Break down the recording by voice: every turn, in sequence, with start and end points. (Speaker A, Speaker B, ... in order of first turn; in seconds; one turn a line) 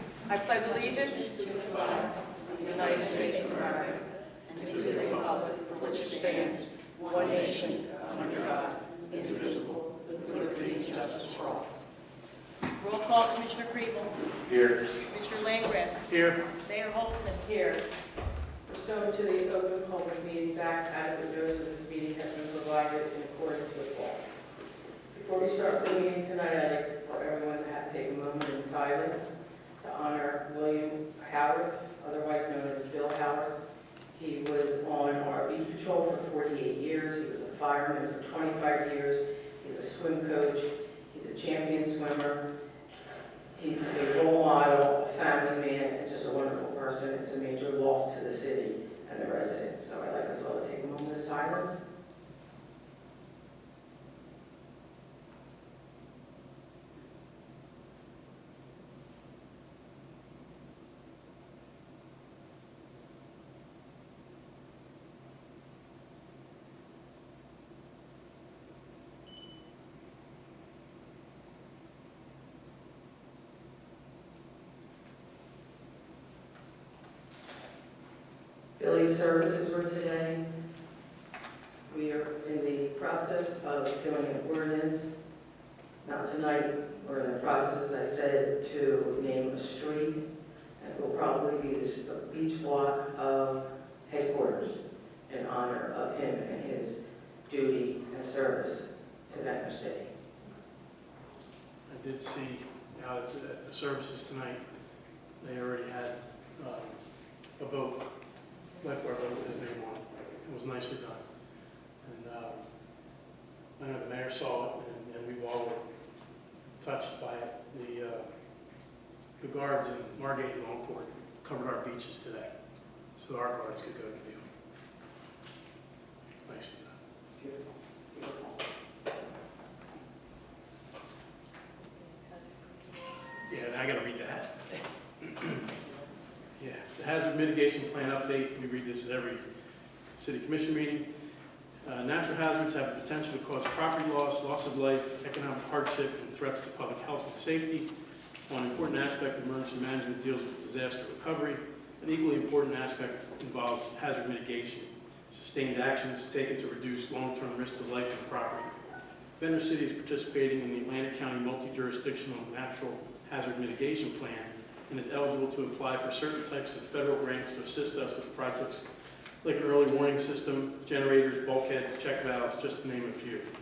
Speaker A: 0.3-11.6
Speaker B: 12.8-14.3
Speaker B: 14.8-17.4
Speaker C: 16.1-16.4
Speaker A: 17.4-17.8
Speaker A: 18.7-24.2
Speaker A: 25.1-33.5
Speaker A: 34.1-42.4
Speaker A: 43.5-51.8
Speaker A: 78.8-80.4
Speaker A: 81.9-85.1
Speaker A: 86.0-90.2
Speaker A: 90.8-100.1
Speaker C: 101.9-104.6
Speaker C: 105.4-107.0
Speaker C: 107.6-108.0
Speaker C: 108.8-111.2
Speaker C: 112.0-112.6
Speaker C: 113.8-115.8
Speaker C: 116.8-118.2
Speaker C: 119.4-122.5
Speaker C: 123.2-124.4
Speaker C: 126.4-126.9
Speaker A: 128.1-128.5
Speaker B: 132.0-133.4
Speaker C: 133.5-134.6
Speaker C: 135.2-135.5
Speaker B: 135.4-136.5
Speaker C: 136.6-139.4
Speaker C: 140.1-141.1
Speaker C: 141.8-147.9
Speaker C: 148.5-158.7
Speaker C: 159.4-168.8
Speaker C: 169.4-173.4